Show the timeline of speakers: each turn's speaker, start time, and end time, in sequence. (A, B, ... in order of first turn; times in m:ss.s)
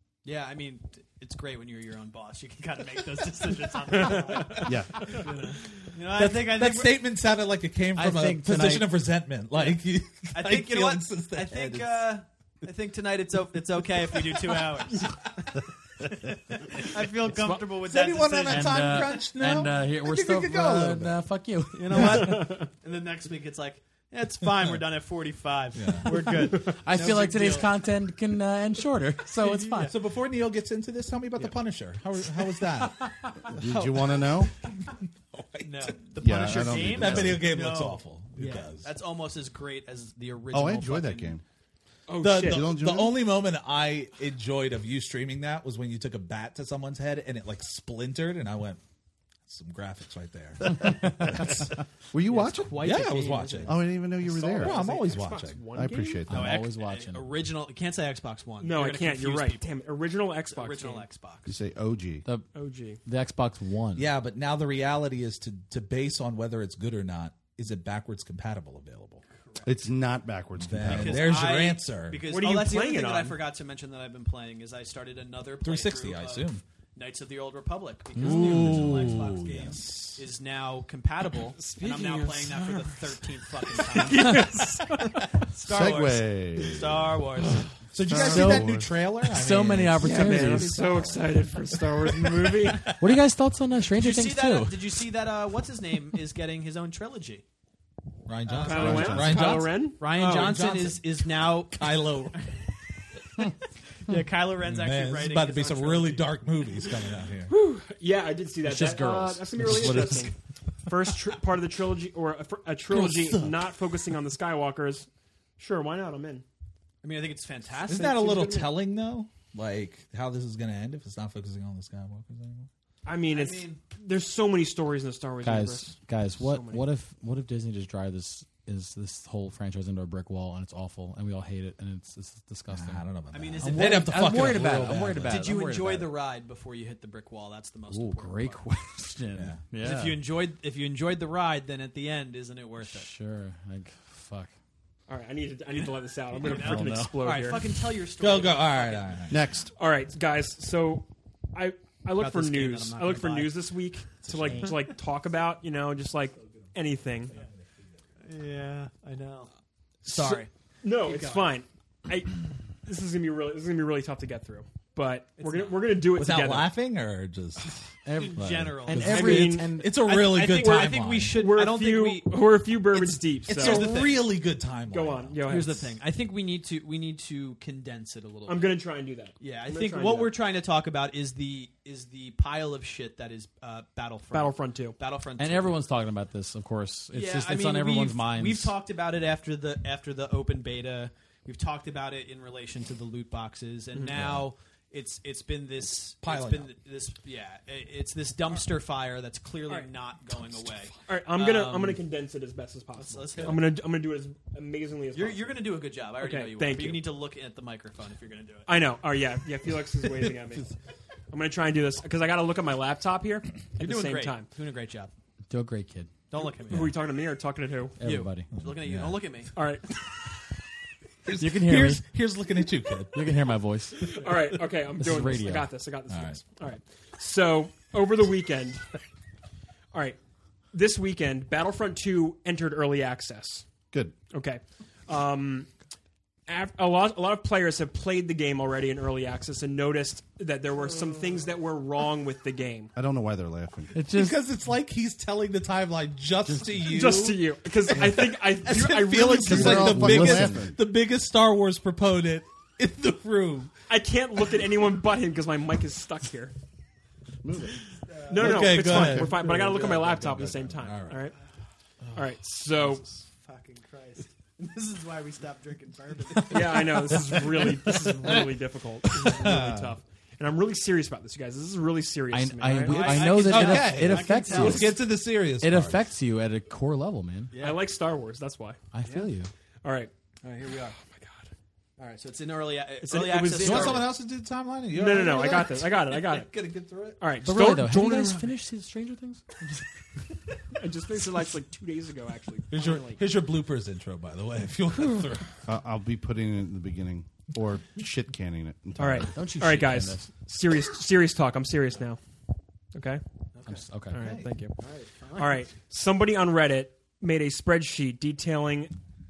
0:00.2-0:07.0 A
0:03.9-0:04.6 B
0:04.6-0:05.2 C
0:06.1-0:12.1 D
0:08.0-0:08.9 E
0:10.4-0:19.1 A
0:17.4-0:17.6 B
0:17.8-0:21.2 D
0:18.5-0:22.6 E
0:21.7-0:27.7 A
0:22.1-0:22.7 B
0:25.8-0:26.2 D
0:26.6-0:29.9 E
0:29.4-0:29.9 A
0:29.9-0:33.1 D
0:33.5-0:34.5 C
0:33.7-0:34.1 A
0:34.6-0:36.0 D
0:35.6-0:41.4 A
0:36.2-0:37.5 C
0:36.5-0:38.9 D
0:40.5-0:41.4 C
0:42.1-0:42.8 B
0:42.2-0:48.8 D
0:42.4-0:43.2 C
0:49.5-0:51.7 D
0:50.8-0:52.9 C
0:52.3-0:53.8 A
0:52.8-0:53.8 D
0:53.7-0:54.8 C
0:54.2-0:56.3 B
0:54.6-0:55.6 D
0:55.7-0:56.6 C
0:56.3-0:59.7 A
0:56.3-0:57.3 E
0:58.6-1:01.1 B
1:00.5-1:01.5 A
1:01.5-1:02.3 C
1:02.6-1:03.0 B
1:03.0-1:04.1 E
1:04.0-1:09.2 D
1:09.6-1:11.5 C
1:10.6-1:12.2 D
1:10.8-1:27.7 A
1:12.3-1:13.4 B
1:15.6-1:16.6 D
1:18.2-1:20.2 D
1:18.2-1:18.6 E
1:21.6-1:25.4 B
1:25.7-1:27.2 C
1:27.9-1:31.3 D
1:28.0-1:28.9 C
1:28.1-1:30.8 E
1:30.0-1:33.0 B
1:32.2-1:33.0 D
1:32.8-1:34.9 E
1:34.0-1:37.4 A
1:38.3-1:42.6 D
1:38.5-1:42.5 A
1:38.6-1:40.7 B
1:38.8-1:39.1 E
1:44.0-1:46.3 A
1:44.6-1:47.5 D
1:47.5-1:50.3 B
1:48.6-1:50.3 E
1:50.9-1:56.4 B
1:52.9-1:53.6 D
1:57.0-1:58.7 A
1:57.8-2:02.7 D
2:03.1-2:06.9 B
2:03.3-2:03.8 A
2:05.4-2:13.0 E
2:12.7-2:15.5 D
2:13.3-2:18.6 A
2:13.6-2:16.1 E
2:17.9-2:20.2 E
2:19.4-2:19.6 D
2:19.8-2:23.1 A
2:22.8-2:24.5 E
2:25.1-2:27.7 B
2:25.7-2:29.2 A
2:26.4-2:27.2 E
2:28.2-2:29.4 D
2:29.3-2:29.7 C
2:29.8-2:37.4 B
2:32.2-2:33.5 A
2:34.2-2:34.7 A
2:38.2-2:39.5 A
2:40.1-2:40.5 A
2:40.1-2:40.5 D
2:40.2-2:46.7 B
2:41.0-2:41.5 A
2:45.4-2:45.9 A
2:46.2-2:47.8 D
2:48.0-2:49.9 E
2:48.2-2:54.2 A
2:48.9-2:51.4 D
2:49.0-2:49.8 B
2:50.6-2:54.0 B
2:53.5-2:55.4 D
2:54.9-2:55.9 B
2:55.5-2:58.7 A
2:58.5-3:00.3 B
2:59.4-3:05.8 A
3:04.3-3:05.0 B
3:05.4-3:08.7 E
3:07.1-3:22.0 A
3:14.1-3:14.4 D
3:16.2-3:16.7 D
3:21.1-3:27.1 B
3:23.0-3:23.8 A
3:25.1-3:28.8 A
3:28.7-3:30.7 B
3:31.3-3:34.5 B
3:33.8-3:35.1 A
3:35.5-3:36.1 E
3:36.3-3:37.0 A
3:36.4-3:38.0 B
3:38.0-3:38.5 E
3:38.0-3:39.5 A
3:38.5-3:39.2 D
3:39.6-3:39.9 B
3:41.2-3:43.3 D
3:41.4-3:42.0 E
3:43.1-3:44.3 E
3:44.0-3:48.8 B
3:45.0-3:45.7 E
3:46.1-3:46.4 D
3:49.9-3:50.2 B
3:50.7-3:53.7 B
3:54.3-3:55.7 B
3:56.5-4:02.9 B
4:03.0-4:04.0 C
4:03.9-4:04.4 E
4:04.1-4:07.4 D
4:06.5-4:06.7 E
4:06.8-4:10.0 B
4:07.9-4:13.7 D
4:09.4-4:10.8 C
4:09.5-4:10.7 E
4:13.9-4:16.5 B
4:17.4-4:17.8 C
4:18.1-4:18.4 A
4:18.3-4:21.4 B
4:18.3-4:20.7 C
4:18.4-4:20.0 D
4:20.7-4:21.2 D
4:22.2-4:23.0 B
4:22.8-4:28.4 A
4:26.5-4:33.8 B
4:29.1-4:29.9 D
4:32.3-4:35.0 E
4:32.8-4:35.0 A
4:33.3-4:36.0 D
4:35.6-4:37.5 E
4:37.5-4:37.9 A
4:37.6-4:38.8 B
4:38.9-4:39.5 E
4:39.8-4:40.1 B
4:40.4-4:41.0 A
4:41.0-4:41.5 B
4:42.0-4:44.1 A
4:43.0-4:44.1 B
4:43.6-4:47.2 D
4:44.9-4:46.5 B
4:47.2-4:48.5 B
4:47.4-4:49.7 E
4:50.8-4:53.2 B
4:52.7-4:55.5 D
4:55.7-4:59.3 C
4:59.0-5:02.2 B
4:59.2-5:00.3 E
5:02.9-5:03.2 B
5:03.5-5:03.9 A
5:03.7-5:04.4 E
5:04.1-5:04.8 B
5:04.2-5:04.5 D
5:04.8-5:05.6 A
5:05.4-5:08.9 B